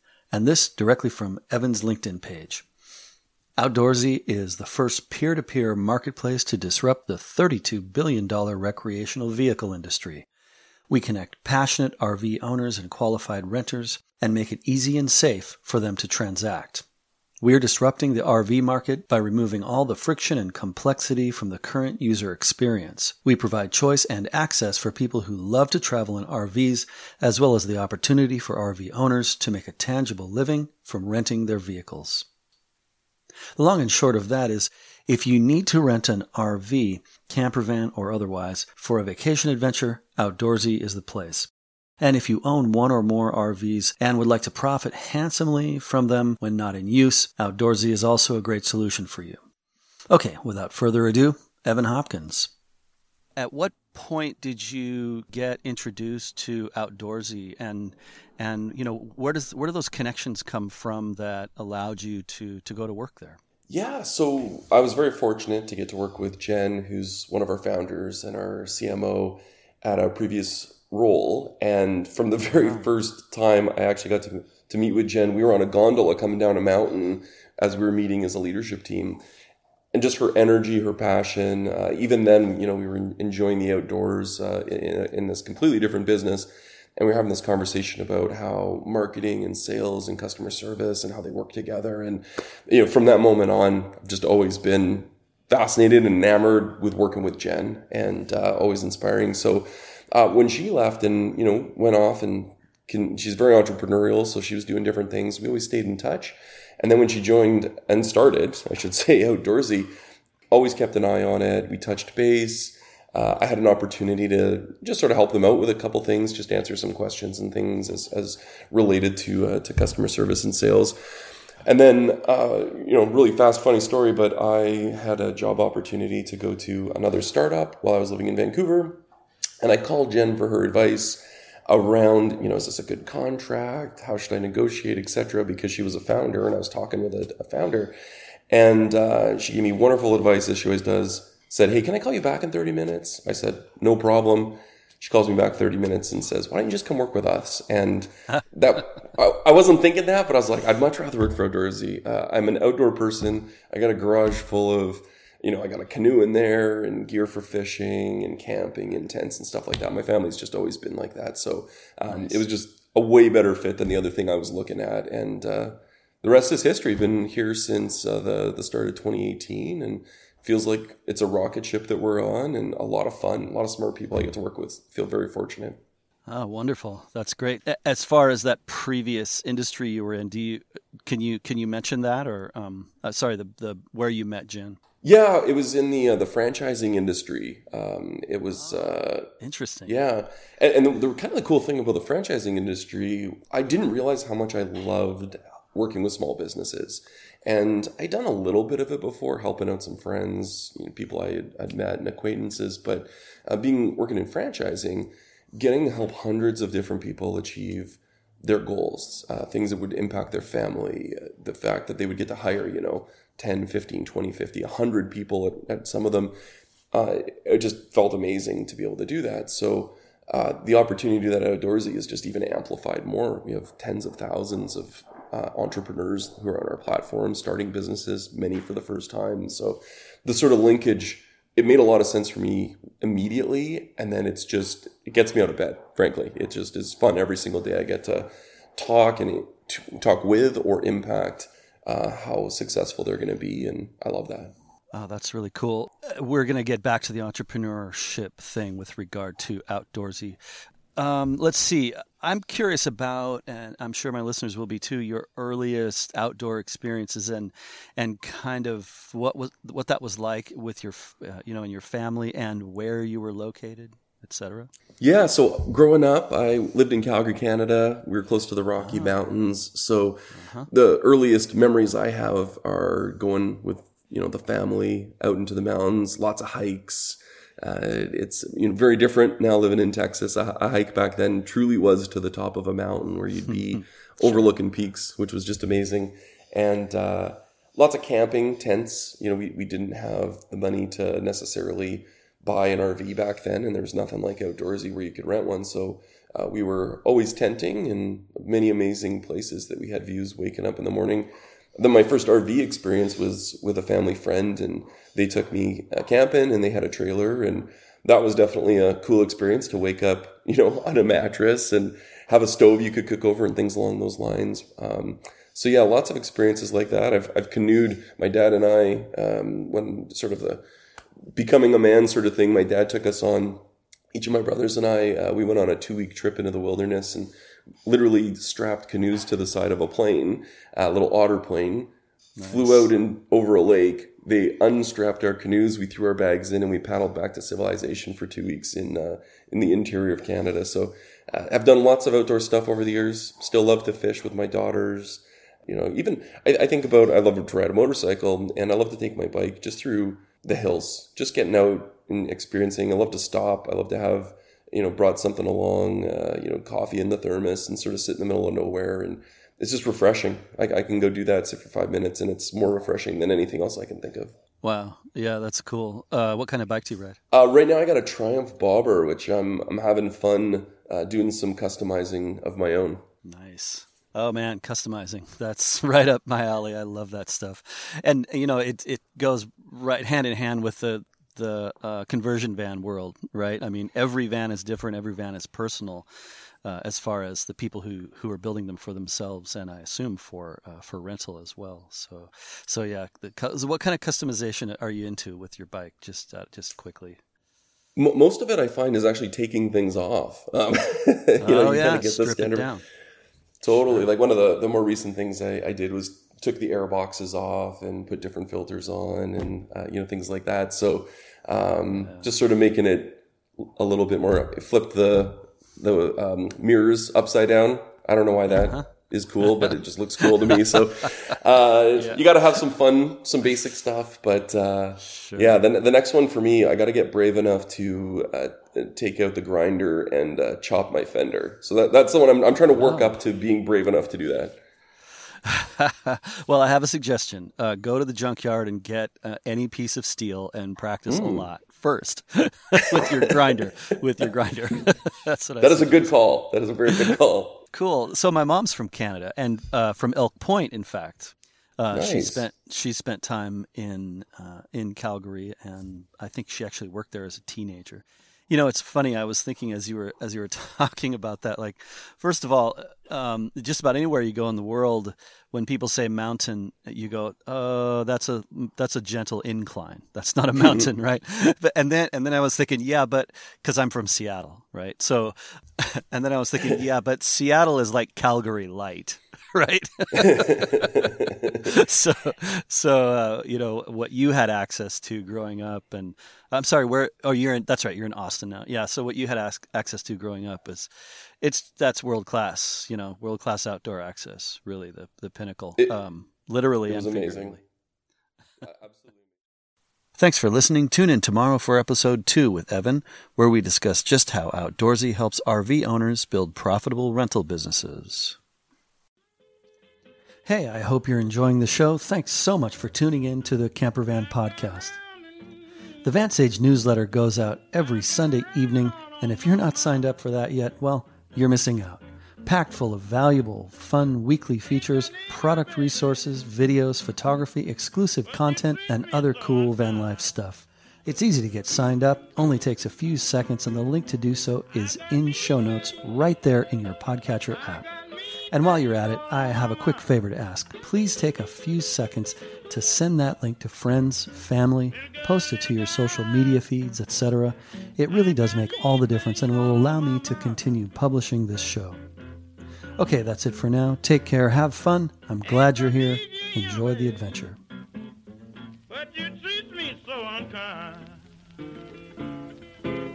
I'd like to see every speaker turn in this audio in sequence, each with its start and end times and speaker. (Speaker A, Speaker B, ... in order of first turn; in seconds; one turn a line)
Speaker A: 0.3-2.7
Speaker A: 3.6-10.3
Speaker A: 10.9-16.9
Speaker A: 17.4-32.3
Speaker A: 33.6-41.5
Speaker A: 42.0-49.4
Speaker A: 50.1-52.5
Speaker A: 53.4-63.4
Speaker B: 63.7-79.2
Speaker B: 79.9-109.9
Speaker B: 110.5-121.0
Speaker B: 121.7-129.0
Speaker B: 129.6-137.9
Speaker B: 138.5-175.8
Speaker A: 162.1-162.4
Speaker A: 176.3-184.8
Speaker B: 185.0-189.3
Speaker A: 189.4-189.9
Speaker B: 189.8-216.3
Speaker B: 216.9-244.5
Speaker A: 244.9-250.4
Speaker A: 251.0-264.7
Speaker B: 265.0-320.6
Speaker A: 268.8-269.1
Speaker A: 270.3-270.7
Speaker B: 321.4-323.6
Speaker B: 324.1-327.3
Speaker B: 327.9-364.4
Speaker A: 332.4-332.9
Speaker A: 364.6-367.2
Speaker B: 367.3-373.0
Speaker A: 373.2-386.1
Speaker A: 386.6-397.2
Speaker B: 398.0-402.7
Speaker A: 401.4-402.8
Speaker B: 403.6-434.6
Speaker A: 422.0-422.2
Speaker A: 425.1-425.5
Speaker A: 432.8-433.2
Speaker A: 435.4-446.1
Speaker B: 441.1-441.5
Speaker B: 443.0-443.3
Speaker B: 445.6-447.6
Speaker A: 447.7-490.9
Speaker B: 451.9-452.4
Speaker B: 480.2-481.5
Speaker A: 491.4-497.6
Speaker B: 496.9-497.6
Speaker B: 498.6-499.3
Speaker A: 500.2-508.4
Speaker A: 510.5-515.0
Speaker A: 516.0-537.9
Speaker A: 538.5-552.0
Speaker A: 553.0-557.6
Speaker C: 558.9-561.2